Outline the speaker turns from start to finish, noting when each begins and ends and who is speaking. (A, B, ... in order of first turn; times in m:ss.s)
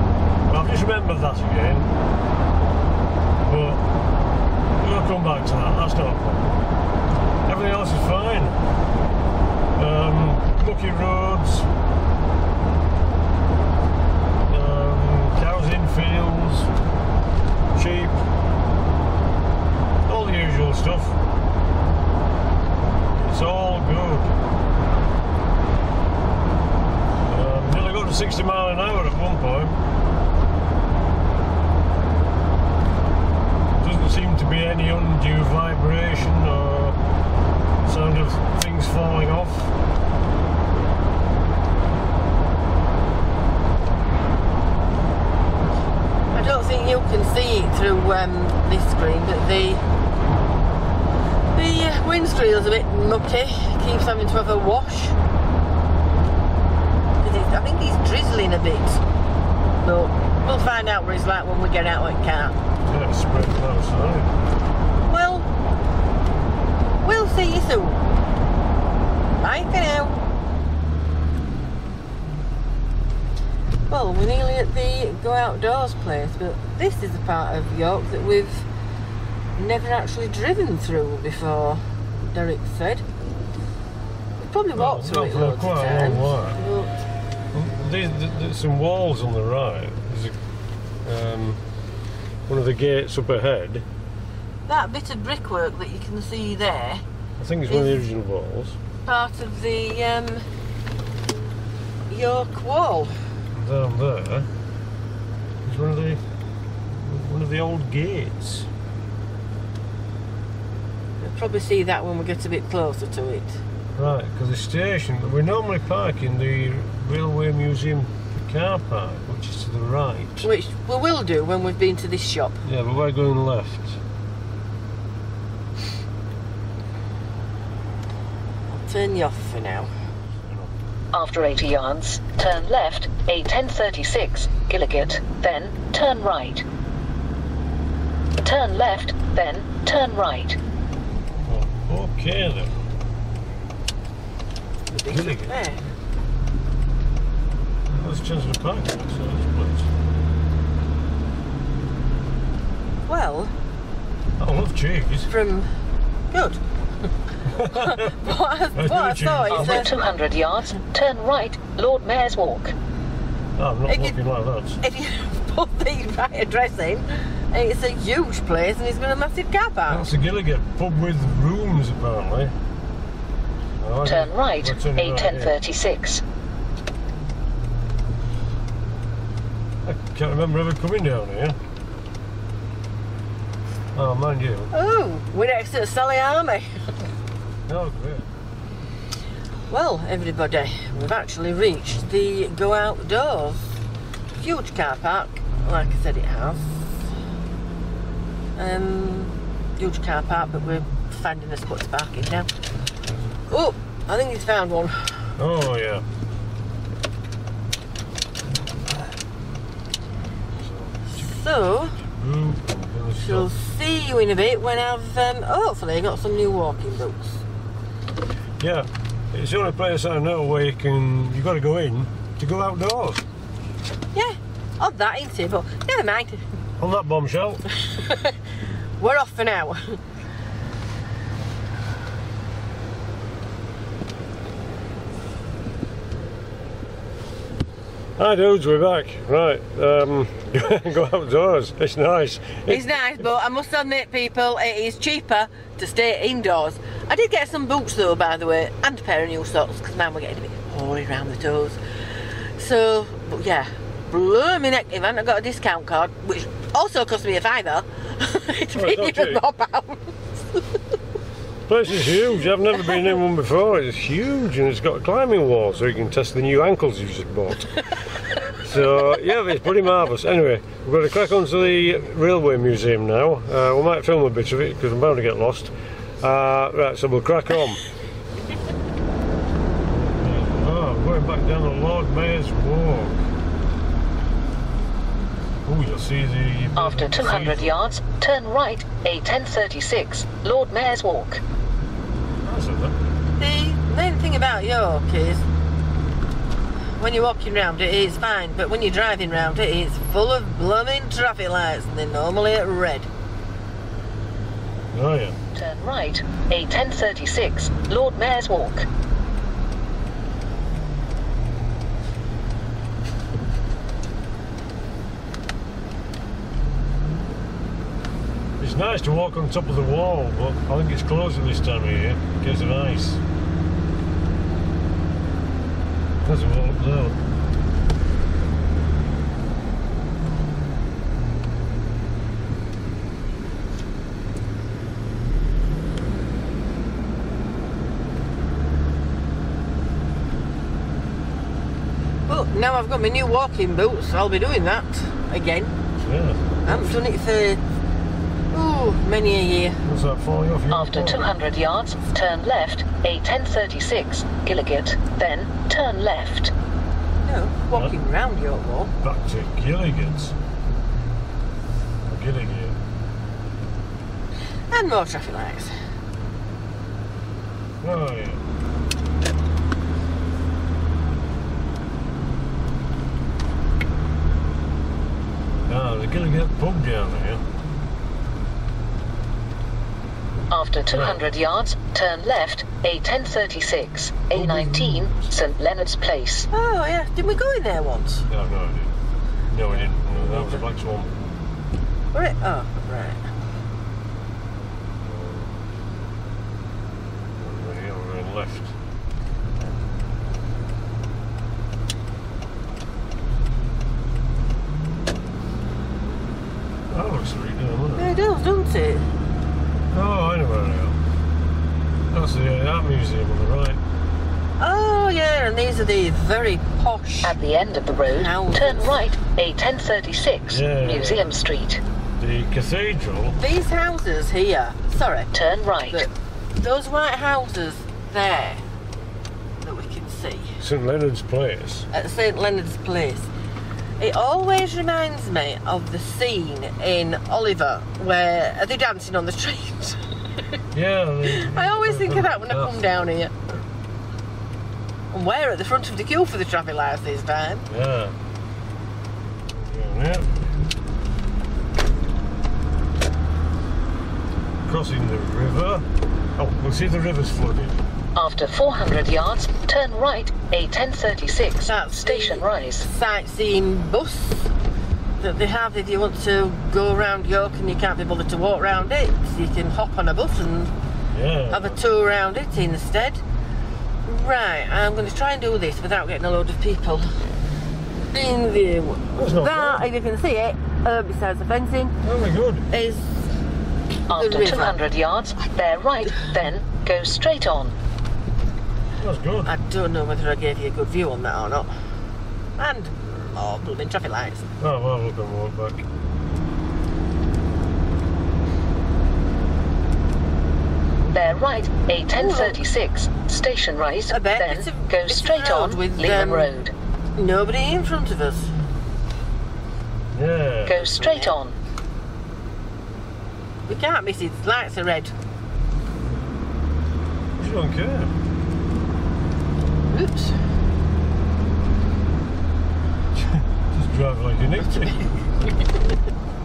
0:00.5-0:01.9 A
0:03.4-0:03.8 A
0:04.8-0:06.6 A
0:07.5-0:08.6 A
0:09.8-0:11.7 A
0:14.5-0:16.7 A
0:17.7-0:18.2 A
0:20.1-0:21.2 A
0:23.1-0:24.4 A
0:27.2-0:29.8 A
0:33.8-0:37.0 A
0:37.8-0:39.7 A
0:46.3-0:49.8 B
0:51.6-0:55.2 B
0:57.2-0:59.0 B
0:59.8-1:02.6 B
1:02.9-1:04.3 A
1:05.1-1:05.5 B
1:07.0-1:08.0 B
1:09.4-1:10.2 B
1:13.9-1:18.7 B
1:19.6-1:23.0 B
1:24.4-1:26.9 B
1:24.7-1:26.6 A
1:27.5-1:30.4 A
1:31.0-1:31.6 A
1:32.5-1:33.8 A
1:34.7-1:37.0 B
1:37.4-1:38.8 A
1:37.7-1:38.0 B
1:39.0-1:40.5 B
1:42.1-1:43.1 B
1:43.5-1:44.5 A
1:45.6-1:46.2 A
1:46.9-1:48.7 A
1:51.2-1:53.6 B
1:54.0-2:00.5 A
2:00.4-2:02.6 B
2:02.6-2:04.0 A
2:08.7-2:09.9 B
2:10.4-2:10.7 A
2:11.1-2:16.6 C
2:18.4-2:20.6 C
2:21.5-2:22.8 A
2:24.9-2:25.8 B
2:25.1-2:25.6 A
2:27.9-2:29.9 A
2:33.1-2:33.5 B
2:34.4-2:35.3 A
2:35.3-2:35.7 B
2:36.3-2:36.6 B
2:37.5-2:39.8 A
2:37.6-2:39.9 B
2:39.5-2:42.8 C
2:43.6-2:44.8 A
2:43.9-2:44.2 B
2:44.8-2:50.1 B
2:49.9-2:52.5 A
2:53.8-2:55.6 A
2:54.1-2:56.2 C
2:59.8-3:01.6 A
3:03.9-3:04.7 A
3:04.7-3:06.8 B
3:07.7-3:08.3 A
3:09.7-3:13.8 B
3:14.4-3:17.0 B
3:18.6-3:22.5 B
3:23.5-3:25.2 B
3:25.4-3:26.0 A
3:30.6-3:31.4 A
3:31.1-3:32.0 B
3:32.0-3:33.5 A
3:33.2-3:37.4 B
3:38.6-3:43.2 A
3:44.1-3:46.4 B
3:46.8-3:47.6 A
3:47.9-3:48.3 B
3:49.0-3:50.0 B
3:58.2-4:03.0 A
4:02.7-4:20.6 B
4:18.8-4:19.4 A
4:21.7-4:27.8 A
4:28.5-4:37.8 A
4:39.9-4:43.2 A
4:45.6-4:47.8 A
4:46.8-4:51.4 C
4:52.4-4:53.0 A
4:53.4-4:55.4 B
4:57.0-5:03.1 B
5:04.9-5:05.4 A
5:05.6-5:08.9 C
5:18.6-5:23.2 A
5:26.2-5:27.2 A
5:42.3-5:45.7 B
5:46.0-5:46.9 A
5:46.7-5:47.6 B
5:48.5-5:49.8 B
5:49.8-5:51.3 A
5:50.7-5:56.5 C
5:57.2-5:58.9 B
5:59.0-6:00.4 A
6:02.1-6:02.8 A
6:04.7-6:05.7 B
6:07.8-6:08.4 A
6:15.7-6:17.4 A
6:20.5-6:26.5 C
6:20.9-6:21.2 A
6:24.3-6:25.3 A
6:26.5-6:28.3 B
6:28.3-6:28.9 A
6:29.5-6:31.1 A
6:32.1-6:33.2 B
6:35.0-6:35.5 A
6:37.4-6:38.7 A
6:46.9-6:48.1 A
6:48.0-6:49.1 B
6:49.9-6:51.0 A
6:52.1-6:53.8 A
6:54.6-6:57.4 B
6:57.2-7:01.8 C
6:58.1-6:59.1 B
7:00.5-7:01.3 A
7:02.2-7:03.4 A
7:03.4-7:08.6 B
7:05.3-7:06.1 C
7:09.6-7:10.6 B
7:10.6-7:11.9 A
7:11.9-7:13.3 B
7:14.0-7:20.0 B
7:20.7-7:22.8 A
7:21.3-7:23.4 B
7:25.1-7:27.7 B
7:27.7-7:28.1 A
7:29.5-7:30.5 A
7:34.7-7:35.8 A
7:36.4-7:37.8 A
7:38.2-7:42.9 C
7:41.6-7:44.5 B
7:45.2-7:50.7 B
7:51.1-7:51.8 A
7:51.5-7:53.2 B
7:54.1-7:57.2 B
7:58.1-8:02.0 B
7:59.2-7:59.8 A
8:02.0-8:02.7 A
8:02.7-8:03.3 B
8:04.1-8:07.7 C
8:04.1-8:04.8 B
8:09.0-8:09.5 A
8:09.4-8:11.7 B
8:12.6-8:14.5 B
8:14.6-8:15.8 A
8:21.1-8:26.7 C
8:22.1-8:22.6 B
8:24.1-8:26.5 B
8:27.2-8:28.5 B
8:30.1-8:30.9 A
8:30.7-8:31.6 C
8:31.0-8:31.4 B
8:33.7-8:35.1 B
8:37.4-8:38.1 A
8:39.9-8:40.4 B
8:43.2-8:45.0 A
8:44.7-8:45.6 B